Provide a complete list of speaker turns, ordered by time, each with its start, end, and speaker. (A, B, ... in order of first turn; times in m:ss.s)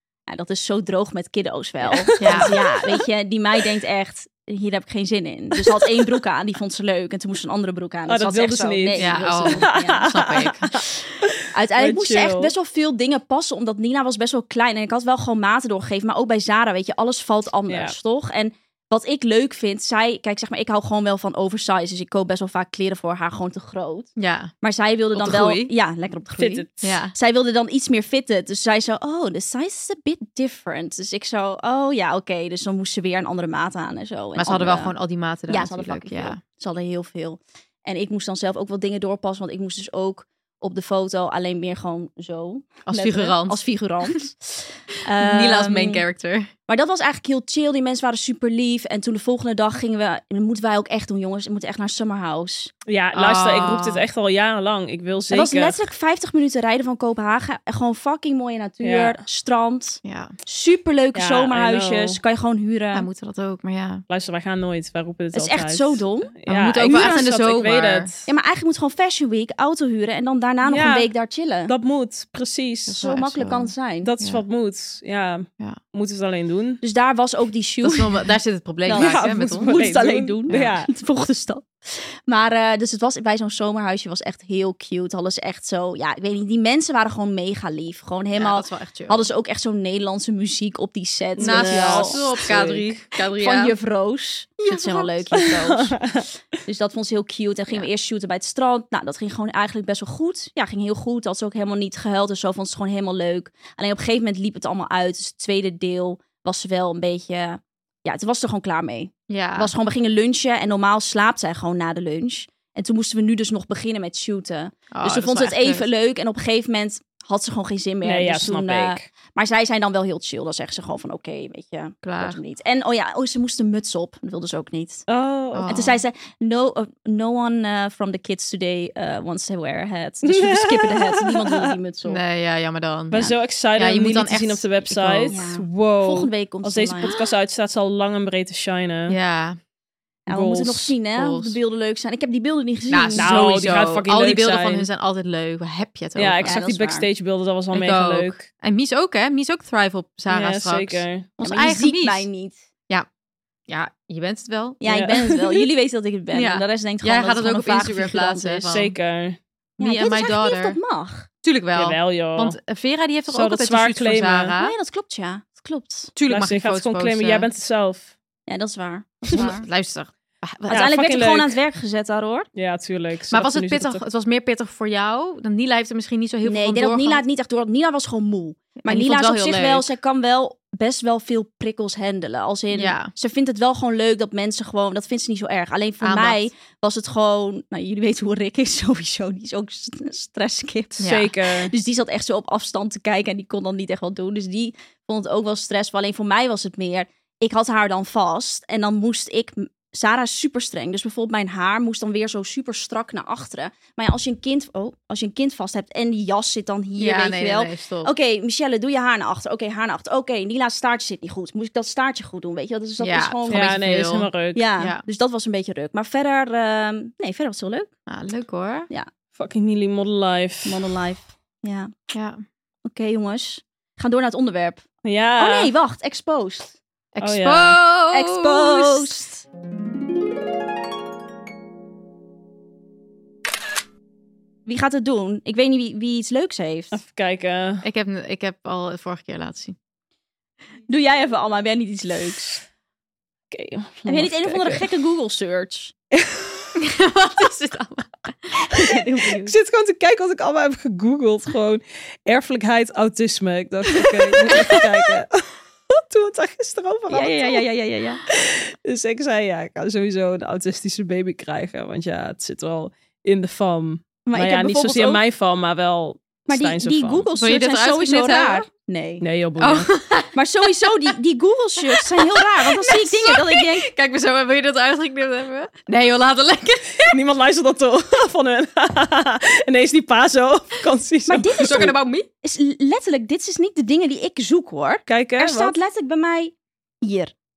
0:00.3-0:10.1 A
0:01.9-0:02.9 B
0:02.2-0:02.6 C
0:08.1-0:12.5 B
0:09.0-0:10.8 C
0:11.5-0:24.1 A
0:17.7-0:18.0 B
0:24.2-0:24.5 C
0:24.6-0:34.9 A
0:25.1-0:25.7 C
0:26.4-0:26.8 B
0:26.8-0:27.1 C
0:34.4-0:36.4 C
0:35.5-0:46.0 A
0:42.9-0:43.6 C
0:45.2-0:46.5 C
0:46.7-0:52.7 A
0:52.9-0:55.8 B
0:53.1-0:54.0 C
0:55.3-1:03.1 A
0:58.8-0:59.2 B
1:00.0-1:00.3 C
1:01.1-1:02.2 B
1:02.9-1:04.0 C
1:04.1-1:08.3 B
1:05.3-1:06.3 A
1:06.5-1:08.1 C
1:06.8-1:07.3 A
1:08.2-1:11.7 A
1:10.6-1:11.1 B
1:11.7-1:13.2 B
1:12.9-1:14.1 A
1:13.0-1:14.4 C
1:14.0-1:16.8 B
1:16.8-1:18.2 A
1:17.8-1:19.8 C
1:18.8-1:32.2 A
1:18.9-1:20.9 B
1:28.3-1:29.2 C
1:31.4-1:33.0 B
1:31.4-1:33.7 C
1:33.4-1:36.1 A
1:34.6-1:35.3 C
1:35.6-1:36.2 B
1:36.6-2:05.0 A
1:49.3-1:49.7 C
1:54.9-1:55.9 C
1:58.0-1:59.0 B
2:02.0-2:02.4 C
2:05.1-2:05.8 B
2:05.5-2:06.0 C
2:05.7-2:12.2 A
2:10.2-2:11.7 B
2:12.0-2:15.4 C
2:13.1-2:19.2 B
2:15.3-2:17.1 A
2:19.1-2:19.6 C
2:20.3-2:23.4 A
2:20.3-2:20.9 B
2:21.1-2:21.6 C
2:22.9-2:26.6 C
2:23.2-2:24.9 B
2:26.2-2:28.5 B
2:26.4-2:27.1 A
2:27.7-2:32.3 C
2:30.3-2:31.3 B
2:31.4-2:32.6 A
2:33.7-2:34.8 C
2:34.8-2:38.7 A
2:34.9-2:35.6 B
2:36.3-2:38.9 C
2:38.7-2:39.4 B
2:39.8-2:40.8 C
2:39.8-2:41.3 A
2:41.4-2:44.8 C
2:41.7-2:42.6 B
2:43.3-2:44.5 B
2:44.6-2:46.1 A
2:46.1-2:47.5 C
2:46.3-2:48.1 B
2:48.5-2:49.6 A
2:49.3-2:50.9 C
2:50.7-2:51.6 B
2:50.7-2:52.5 A
2:52.5-2:54.0 B
2:53.3-2:57.2 C
2:56.4-3:33.7 A
2:58.8-2:59.9 C
3:02.7-3:03.1 C
3:06.0-3:06.4 C
3:11.0-3:11.3 C
3:11.0-3:11.7 B
3:27.0-3:28.1 C
3:33.0-3:35.0 C
3:33.5-3:34.6 B
3:34.5-3:37.9 A
3:38.1-3:38.9 C
3:39.3-3:40.8 B
3:40.6-3:41.9 A
3:42.1-3:42.4 C
3:42.8-3:44.8 A
3:45.0-3:45.7 B
3:45.4-3:46.8 A
3:47.1-3:49.2 C
3:47.2-3:47.8 B
3:48.1-3:49.4 A
3:54.6-3:57.0 A
3:56.9-3:57.8 B
3:57.8-3:59.8 C
4:00.9-4:02.6 A
4:03.5-4:04.8 B
4:04.0-4:05.9 A
4:06.1-4:06.7 B
4:06.8-4:08.3 C
4:08.5-4:09.5 A
4:09.4-4:17.6 B
4:14.5-4:14.8 C
4:17.1-4:18.2 A
4:18.3-4:27.2 B
4:24.2-4:25.2 A
4:26.5-4:29.2 A
4:27.3-4:28.7 C
4:29.2-4:29.9 B
4:29.6-4:30.4 C
4:30.3-4:33.9 A
4:31.9-4:37.2 C
4:37.0-4:41.9 B
4:41.3-4:47.3 A
4:41.6-4:42.3 C
4:45.1-4:45.7 B